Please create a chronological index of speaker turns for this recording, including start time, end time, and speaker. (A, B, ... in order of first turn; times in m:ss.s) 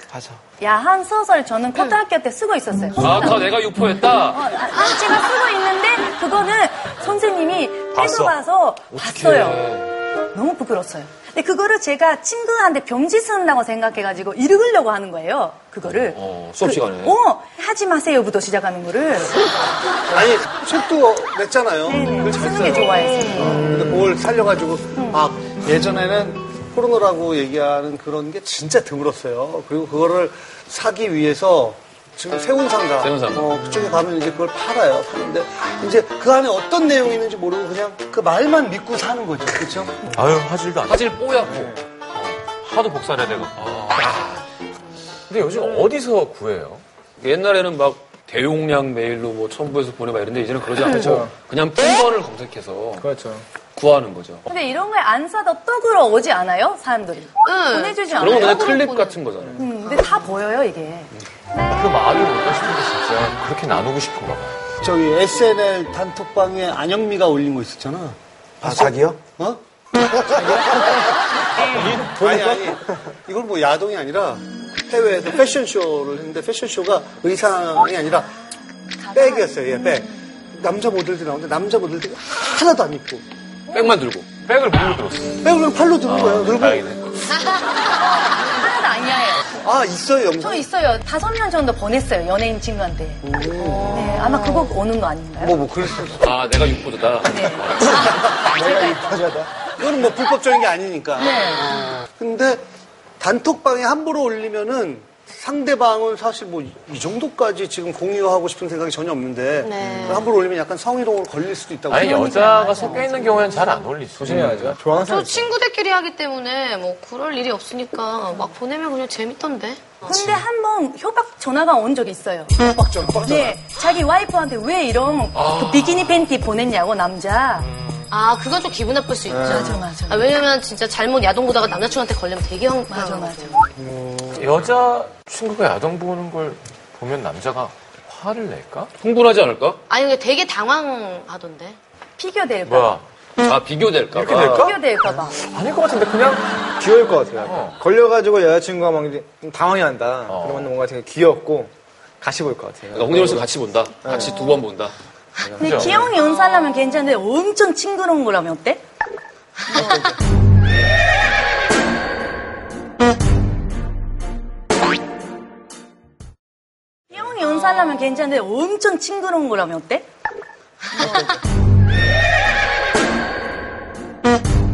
0:00.1-0:00.4 A
0:00.6-0:03.4 B
0:03.0-0:04.5 C
0:04.3-0:09.7 B
0:07.9-0:08.4 D
0:08.9-0:09.9 C
0:10.3-0:19.4 B
0:16.1-0:17.2 C
0:20.1-0:40.0 E
0:21.9-0:23.6 B
0:23.1-0:23.6 F
0:23.4-0:24.1 A
0:33.0-0:33.5 C
0:40.1-0:44.4 D
0:40.9-0:41.8 C
0:41.5-0:41.8 A
0:43.6-0:44.1 C
0:45.3-0:46.8 D
0:47.2-0:53.1 C
0:50.9-0:51.3 A
0:53.0-0:53.4 A
0:53.8-0:54.4 C
0:54.5-0:59.0 B
0:57.4-0:59.2 F
0:58.2-0:59.6 C
0:59.6-1:01.1 B
1:01.7-1:04.6 D
1:04.8-1:09.6 E
1:08.6-1:09.2 A
1:10.2-1:11.0 E
1:10.3-1:11.0 A
1:11.6-1:12.5 D
1:12.1-1:18.3 E
1:12.2-1:12.8 A
1:19.0-1:19.9 B
1:19.1-1:23.2 E
1:23.7-1:24.3 C
1:24.3-1:25.5 D
1:25.4-1:26.9 E
1:26.0-1:27.2 D
1:28.0-1:29.5 B
1:29.6-1:30.7 E
1:30.4-1:33.2 B
1:33.2-1:34.2 E
1:33.7-1:34.7 F
1:33.9-1:35.6 B
1:35.4-1:36.2 E
1:36.2-1:38.1 C
1:37.2-1:39.2 B
1:37.8-1:39.5 A
1:39.8-1:42.6 E
1:41.2-1:41.8 B
1:43.2-1:52.6 E
1:49.6-1:50.3 F
1:51.9-1:54.6 D
1:52.0-1:53.6 B
1:54.2-1:55.5 A
1:54.2-1:54.8 C
1:54.9-2:00.1 F
2:00.0-2:02.5 B
2:02.6-2:03.6 E
2:03.2-2:07.7 B
2:05.4-2:06.2 C
2:08.1-2:13.6 F
2:09.4-2:10.3 B
2:12.9-2:13.6 B
2:13.8-2:14.4 E
2:14.4-2:18.9 D
2:19.0-2:19.8 C
2:19.9-2:21.8 F
2:22.2-2:23.0 B
2:22.7-2:23.0 D
2:23.4-2:24.7 C
2:24.1-2:24.8 D
2:24.4-2:25.4 B
2:25.3-2:26.6 D
2:26.8-2:33.5 A
2:27.4-2:27.8 D
2:30.3-2:30.7 D
2:32.9-2:35.0 C
2:34.0-2:34.4 A
2:35.6-2:36.1 D
2:35.6-2:38.8 B
2:47.1-2:50.1 B